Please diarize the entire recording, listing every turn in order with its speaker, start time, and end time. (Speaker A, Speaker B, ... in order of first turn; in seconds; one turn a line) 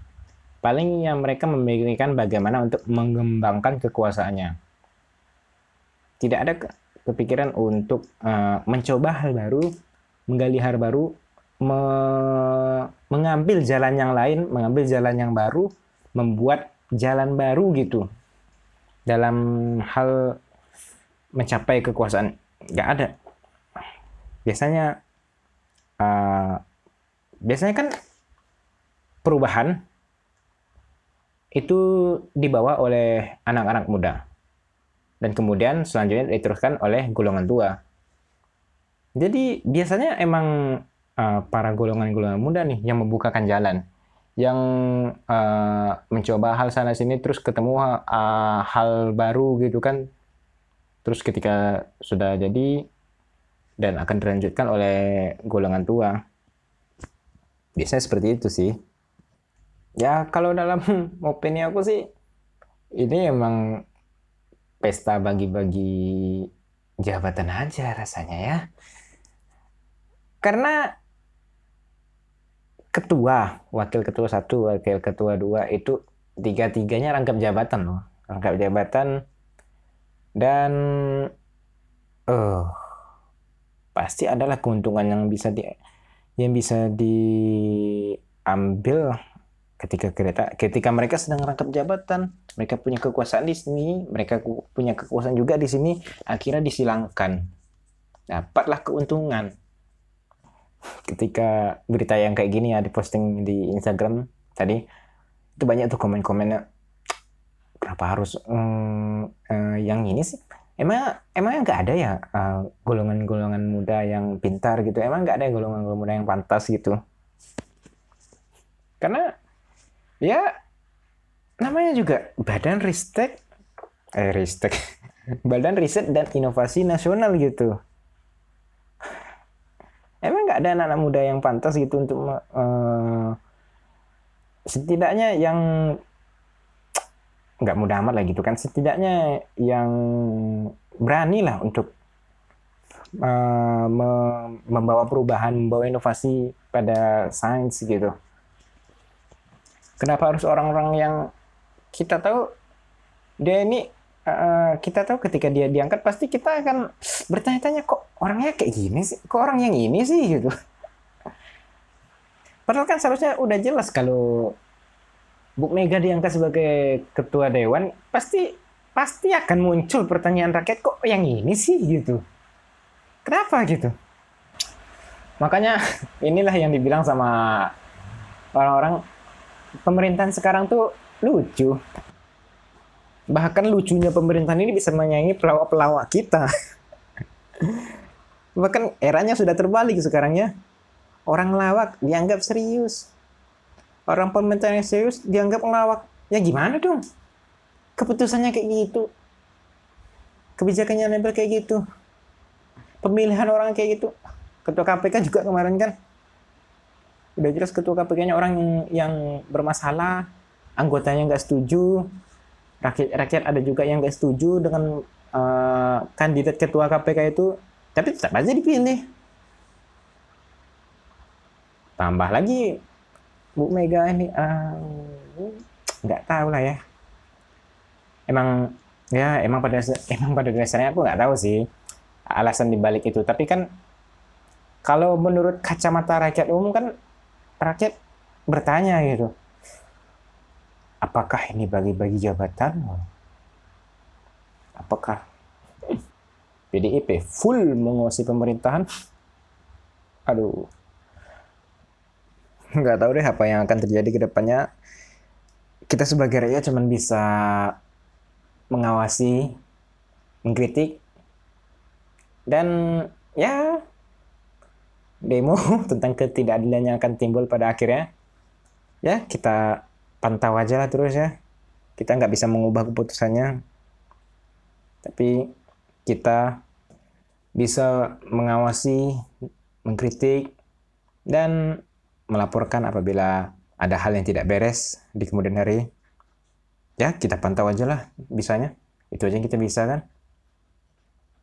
Speaker A: 0.6-4.6
Speaker A: 6.2-9.7
Speaker A: 10.3-18.1
Speaker A: 19.1-20.4
Speaker A: 21.4-23.1
Speaker A: 24.5-24.9
Speaker A: 26.0-26.6
Speaker A: 27.4-27.9
Speaker A: 29.2-29.8
Speaker A: 31.6-34.2
Speaker A: 35.2-37.8
Speaker A: 39.2-40.5
Speaker A: 41.2-43.8
Speaker A: 44.4-50.0
Speaker A: 51.0-52.8
Speaker A: 53.8-56.2
Speaker A: 57.8-58.7
Speaker A: 60.0-62.1
Speaker A: 63.0-63.6
Speaker A: 64.8-66.5
Speaker A: 67.0-68.6
Speaker A: 70.4-70.9
Speaker A: 72.9-79.1
Speaker A: 80.4-81.3
Speaker A: 82.3-82.8
Speaker A: 84.0-85.7
Speaker A: 86.4-89.2
Speaker A: 89.8-97.5
Speaker A: 98.3-99.5
Speaker A: 101.1-104.8
Speaker A: 105.6-106.6
Speaker A: 107.8-117.0
Speaker A: 119.0-119.3
Speaker A: 121.6-123.4
Speaker A: 124.2-124.7
Speaker A: 125.5-127.7
Speaker A: 130.2-133.4
Speaker A: 134.7-136.0
Speaker A: 137.6-141.9
Speaker A: 143.2-148.1
Speaker A: 150.0-151.3
Speaker A: 151.9-152.5
Speaker A: 153.4-160.5
Speaker A: 162.7-164.6
Speaker A: 165.6-172.2
Speaker A: 173.2-173.9
Speaker A: 175.4-177.7
Speaker A: 178.6-179.0
Speaker A: 179.8-181.8
Speaker A: 183.3-186.5
Speaker A: 187.6-187.9
Speaker A: 188.6-190.5
Speaker A: 191.3-193.1
Speaker A: 194.1-197.0
Speaker A: 198.0-199.1
Speaker A: 200.6-201.8
Speaker A: 203.0-204.1
Speaker A: 204.7-205.9
Speaker A: 207.4-210.3
Speaker A: 210.8-212.1
Speaker A: 212.8-219.1
Speaker A: 222.0-222.8
Speaker A: 223.6-226.8
Speaker A: 228.3-231.6
Speaker A: 232.3-233.7
Speaker A: 234.8-236.9
Speaker A: 237.6-237.9
Speaker A: 238.5-239.3
Speaker A: 241.0-243.0
Speaker A: 244.8-245.2
Speaker A: 246.7-248.8
Speaker A: 250.3-250.7
Speaker A: 252.8-254.7
Speaker A: 255.9-257.8
Speaker A: 258.7-259.6
Speaker A: 260.5-261.0
Speaker A: 262.5-263.8
Speaker A: 265.2-268.1
Speaker A: 269.0-271.4
Speaker A: 272.0-273.6
Speaker A: 275.0-275.5
Speaker A: 276.1-276.6
Speaker A: 277.6-279.2
Speaker A: 279.9-280.5
Speaker A: 281.3-285.9
Speaker A: 287.0-290.0